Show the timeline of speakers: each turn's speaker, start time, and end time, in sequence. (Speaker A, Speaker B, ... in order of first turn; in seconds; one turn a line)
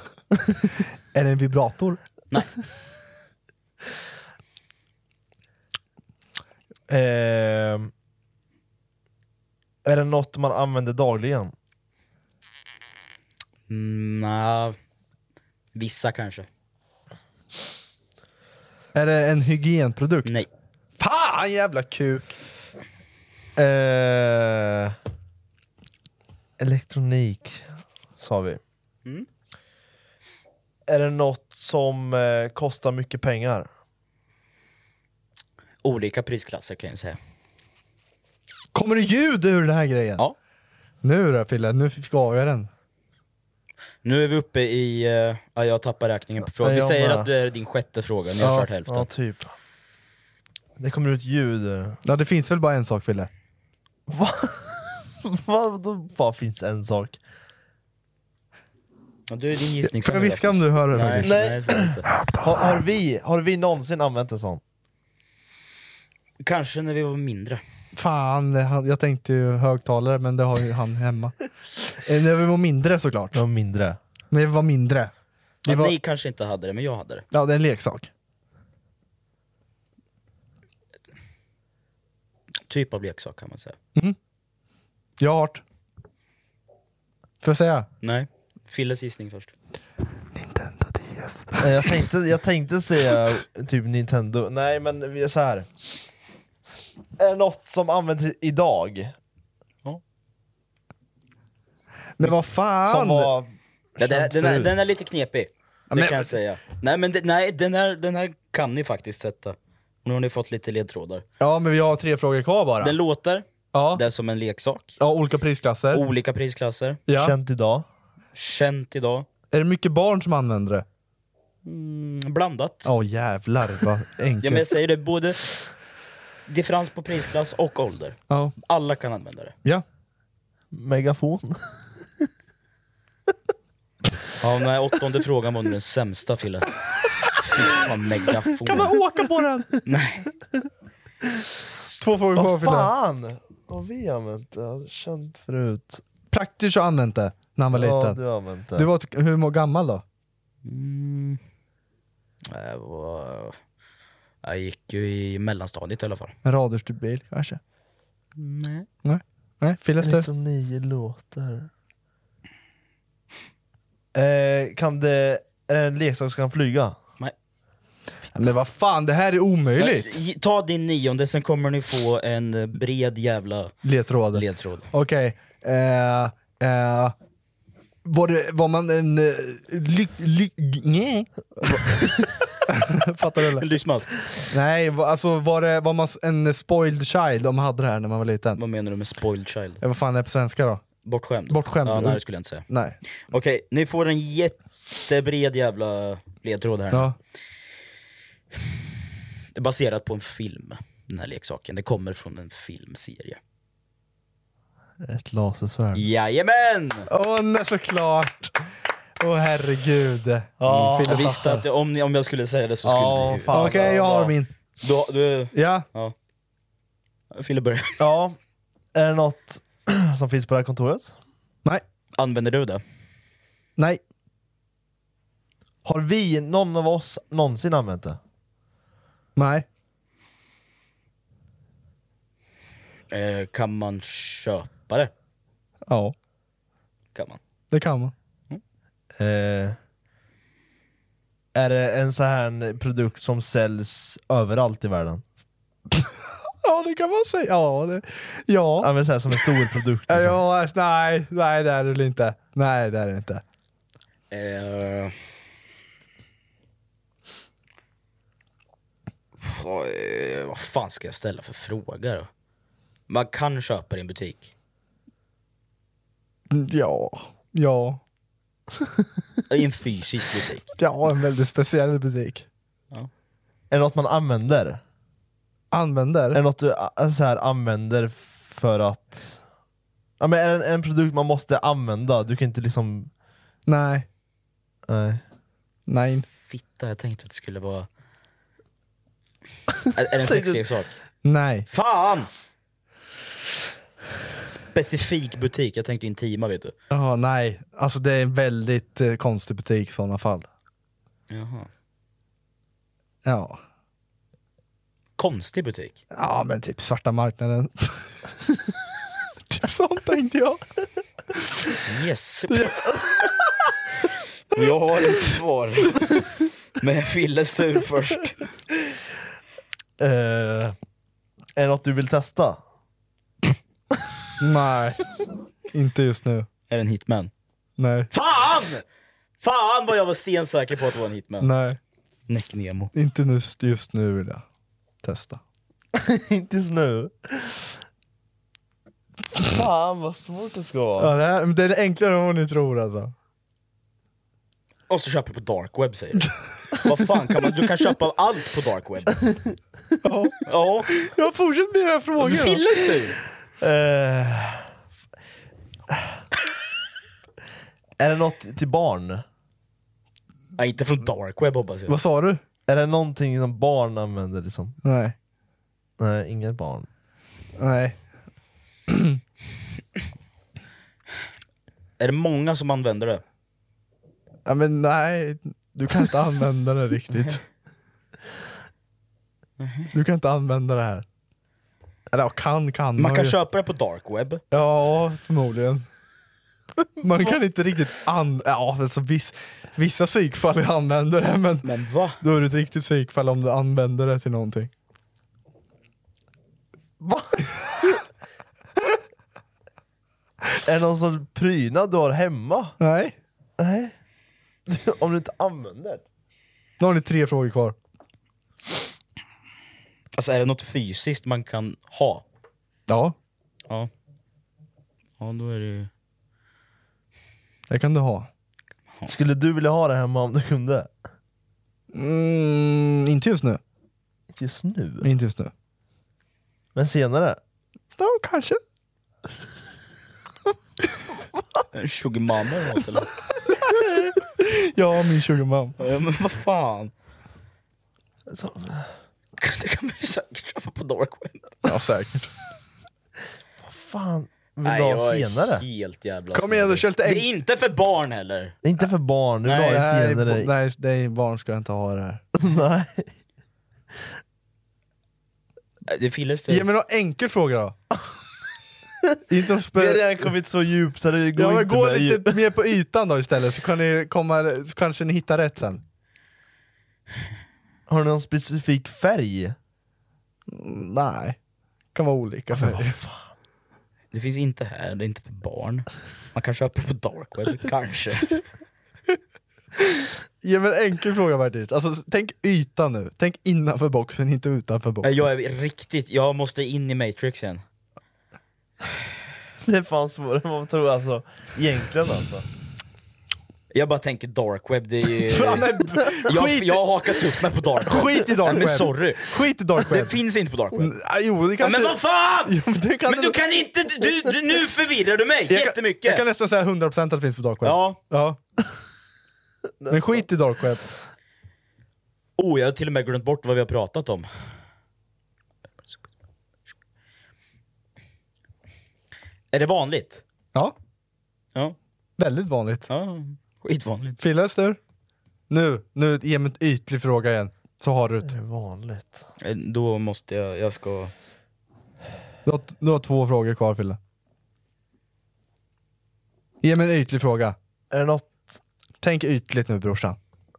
Speaker A: 1.1-2.0
Speaker B: 6.9-7.9
Speaker B: 9.8-11.5
Speaker C: 13.7-14.8
Speaker C: 15.7-16.5
Speaker A: 18.9-20.4
Speaker A: 21.0-22.3
Speaker B: 23.6-24.9
Speaker B: 26.6-27.6
Speaker B: 28.2-28.6
Speaker B: 30.9-33.7
Speaker C: 35.8-37.2
Speaker A: 38.7-40.2
Speaker A: 41.0-42.7
Speaker C: 44.0-49.1
Speaker B: 46.6-47.3
Speaker A: 48.4-48.7
Speaker B: 48.9-49.5
Speaker B: 50.8-52.0
Speaker A: 52.0-53.3
Speaker B: 54.1-57.2
Speaker C: 59.3-62.1
Speaker A: 59.8-61.4
Speaker B: 61.2-64.6
Speaker C: 66.4-67.6
Speaker A: 67.9-73.4
Speaker B: 73.3-74.0
Speaker A: 74.3-75.1
Speaker A: 75.6-75.9
Speaker C: 75.6-77.2
Speaker A: 77.3-78.1
Speaker C: 82.7-83.8
Speaker A: 85.2-85.6
Speaker A: 87.4-87.9
Speaker C: 88.0-89.5
Speaker A: 90.3-92.0
Speaker B: 91.6-95.7
Speaker B: 97.2-99.1
Speaker A: 102.2-103.3
Speaker B: 102.8-104.8
Speaker C: 104.0-111.2
Speaker A: 105.9-106.3
Speaker A: 111.4-113.0
Speaker C: 112.8-115.0
Speaker A: 113.7-114.0
Speaker A: 115.0-116.0
Speaker C: 115.9-117.0
Speaker A: 117.1-117.3
Speaker B: 117.1-117.8
Speaker C: 118.3-119.2
Speaker A: 119.5-120.8
Speaker C: 121.6-122.9
Speaker A: 122.8-124.7
Speaker C: 124.4-125.4
Speaker C: 126.5-129.5
Speaker A: 128.3-128.5
Speaker B: 130.7-131.8
Speaker C: 134.4-136.7
Speaker C: 137.4-138.9
Speaker A: 138.6-139.8
Speaker C: 139.8-140.3
Speaker A: 142.0-142.9
Speaker B: 142.3-146.0
Speaker A: 146.3-148.2
Speaker B: 147.7-148.9
Speaker A: 148.7-150.0
Speaker C: 150.6-151.4
Speaker C: 152.5-153.6
Speaker C: 154.4-156.3
Speaker A: 156.4-157.6
Speaker C: 158.4-158.9
Speaker A: 159.0-160.3
Speaker B: 160.0-161.7
Speaker B: 164.1-167.0
Speaker A: 168.3-170.2
Speaker C: 169.8-173.7
Speaker A: 173.8-177.1
Speaker C: 174.3-174.9
Speaker A: 178.0-182.1
Speaker A: 182.7-183.7
Speaker C: 183.5-184.2
Speaker A: 184.5-188.6
Speaker C: 188.6-189.8
Speaker A: 189.8-190.8
Speaker C: 191.0-192.6
Speaker A: 191.5-193.0
Speaker C: 193.3-197.1
Speaker C: 199.6-203.4
Speaker B: 205.0-206.0
Speaker C: 205.9-207.1
Speaker A: 207.1-208.6
Speaker A: 209.2-211.6
Speaker B: 210.6-211.2
Speaker C: 210.7-216.1
Speaker B: 212.8-214.3
Speaker A: 213.5-214.5
Speaker A: 215.5-215.8
Speaker C: 217.3-218.0
Speaker B: 218.0-218.4
Speaker B: 218.9-221.1
Speaker C: 222.2-222.8
Speaker B: 225.8-228.2
Speaker A: 229.3-229.7
Speaker C: 233.1-235.1
Speaker A: 235.9-236.1
Speaker A: 237.7-238.1
Speaker B: 239.2-239.8
Speaker B: 241.5-245.2
Speaker A: 245.9-249.4
Speaker B: 248.8-250.4
Speaker A: 250.1-253.4
Speaker C: 254.3-255.1
Speaker C: 259.4-262.3
Speaker C: 263.1-264.5
Speaker A: 266.5-268.0
Speaker C: 269.5-270.7
Speaker A: 270.8-272.4
Speaker B: 273.7-274.8
Speaker A: 275.7-276.4
Speaker B: 276.3-279.4
Speaker B: 280.2-283.1
Speaker A: 283.7-284.1
Speaker B: 284.9-285.2
Speaker A: 285.9-286.2
Speaker C: 286.5-287.9
Speaker C: 289.9-290.9
Speaker B: 290.2-290.6
Speaker A: 291.2-291.7
Speaker C: 291.7-292.3
Speaker C: 294.4-296.7
Speaker A: 296.9-300.5
Speaker C: 301.3-301.7
Speaker A: 303.2-303.6
Speaker C: 305.2-306.0
Speaker A: 306.1-308.1
Speaker A: 309.5-310.6
Speaker C: 311.8-313.3
Speaker A: 312.5-313.0
Speaker C: 314.5-318.4
Speaker B: 320.0-320.7
Speaker B: 321.6-322.6
Speaker A: 324.4-325.0
Speaker A: 325.7-326.5
Speaker C: 326.7-327.3
Speaker A: 327.8-328.1
Speaker C: 328.1-328.8
Speaker C: 329.4-331.5
Speaker A: 331.4-331.8
Speaker C: 332.3-332.9
Speaker A: 332.9-334.4
Speaker A: 335.0-335.4
Speaker B: 335.9-337.6
Speaker B: 339.4-341.1
Speaker A: 341.0-343.1
Speaker C: 344.9-349.3
Speaker A: 350.0-352.6
Speaker C: 350.4-350.9
Speaker C: 352.2-353.2
Speaker B: 353.6-354.7
Speaker B: 358.0-359.2
Speaker C: 360.6-362.0
Speaker A: 361.9-362.4
Speaker B: 362.7-364.8
Speaker A: 364.8-365.1
Speaker B: 366.0-366.9
Speaker A: 367.6-368.0
Speaker A: 368.9-369.2
Speaker C: 372.0-373.2
Speaker A: 374.4-377.4
Speaker C: 379.6-379.9
Speaker A: 379.9-381.0
Speaker A: 382.1-383.4
Speaker C: 383.0-384.4
Speaker A: 384.5-385.9
Speaker A: 387.0-391.7
Speaker C: 391.6-392.2
Speaker A: 392.2-394.7
Speaker B: 397.0-398.0
Speaker B: 400.6-402.7
Speaker A: 402.8-403.1
Speaker B: 403.6-403.9
Speaker B: 404.7-406.0
Speaker A: 406.8-407.8
Speaker C: 410.1-412.2
Speaker A: 412.9-413.1
Speaker C: 415.2-415.9
Speaker A: 417.7-418.3
Speaker B: 419.1-420.9
Speaker A: 421.9-423.6
Speaker B: 424.3-425.1
Speaker A: 425.0-425.5
Speaker B: 426.7-427.4
Speaker A: 428.0-428.6
Speaker C: 431.7-433.1
Speaker A: 434.4-435.8
Speaker C: 435.8-436.9
Speaker B: 438.3-438.9
Speaker C: 439.4-441.5
Speaker A: 441.6-442.3
Speaker B: 443.6-445.6
Speaker C: 444.6-448.6
Speaker A: 446.3-447.2
Speaker B: 448.6-450.5
Speaker C: 449.4-449.8
Speaker A: 449.6-452.2
Speaker B: 452.4-453.1
Speaker C: 455.9-456.7
Speaker A: 456.5-457.7
Speaker A: 459.3-460.3
Speaker B: 459.7-462.4
Speaker A: 461.4-465.8
Speaker B: 467.9-469.6
Speaker A: 470.5-471.4
Speaker A: 471.9-473.0
Speaker B: 472.5-473.3
Speaker C: 474.1-478.4
Speaker A: 479.9-485.1
Speaker C: 485.0-487.6
Speaker B: 489.6-492.4
Speaker C: 493.7-500.9
Speaker A: 495.3-496.8
Speaker A: 497.8-500.2
Speaker A: 500.7-503.4
Speaker C: 501.6-506.2
Speaker A: 505.5-508.4
Speaker C: 507.6-508.0
Speaker B: 509.8-510.2
Speaker A: 509.9-510.9
Speaker C: 512.4-514.3
Speaker C: 519.5-520.2
Speaker A: 522.2-522.9
Speaker C: 522.9-524.2
Speaker A: 524.2-524.8
Speaker A: 525.5-528.3
Speaker B: 528.2-529.2
Speaker C: 529.4-531.1
Speaker A: 532.4-534.0
Speaker A: 536.6-537.5
Speaker B: 537.9-538.6
Speaker A: 539.0-540.2